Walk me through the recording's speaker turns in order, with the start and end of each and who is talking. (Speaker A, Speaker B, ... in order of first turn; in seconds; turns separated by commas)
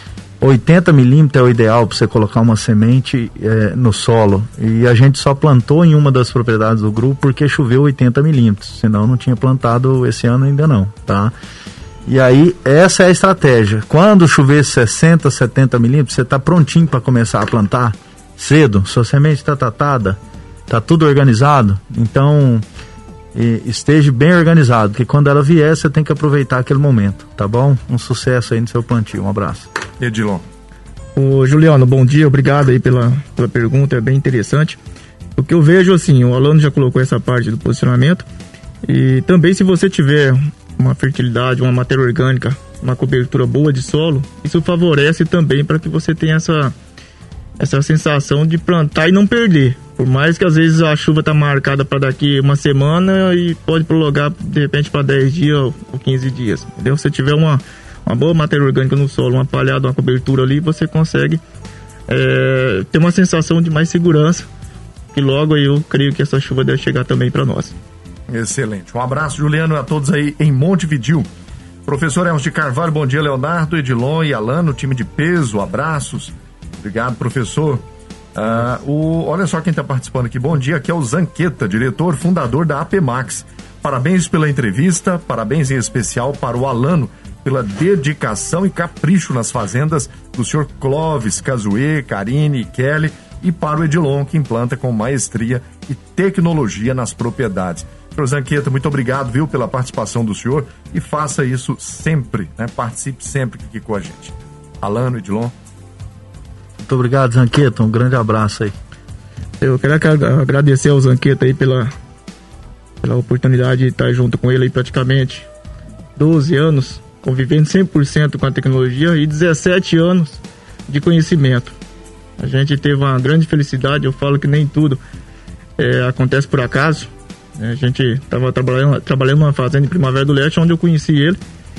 Speaker A: 0.4-11.3, Speaker A: 12.1-22.6, Speaker A: 23.3-29.7, Speaker B: 30.0-30.5, Speaker C: 31.2-34.8, Speaker C: 35.4-38.3, Speaker C: 38.8-46.8, Speaker C: 47.6-61.4, Speaker C: 62.1-64.5, Speaker C: 65.1-67.8, Speaker B: 68.3-71.3, Speaker B: 71.9-77.8, Speaker B: 78.3-105.5, Speaker A: 106.8-108.8, Speaker C: 109.6-111.9, Speaker C: 113.0-115.5, Speaker C: 116.2-121.8, Speaker C: 122.4-125.0, Speaker C: 125.8-131.4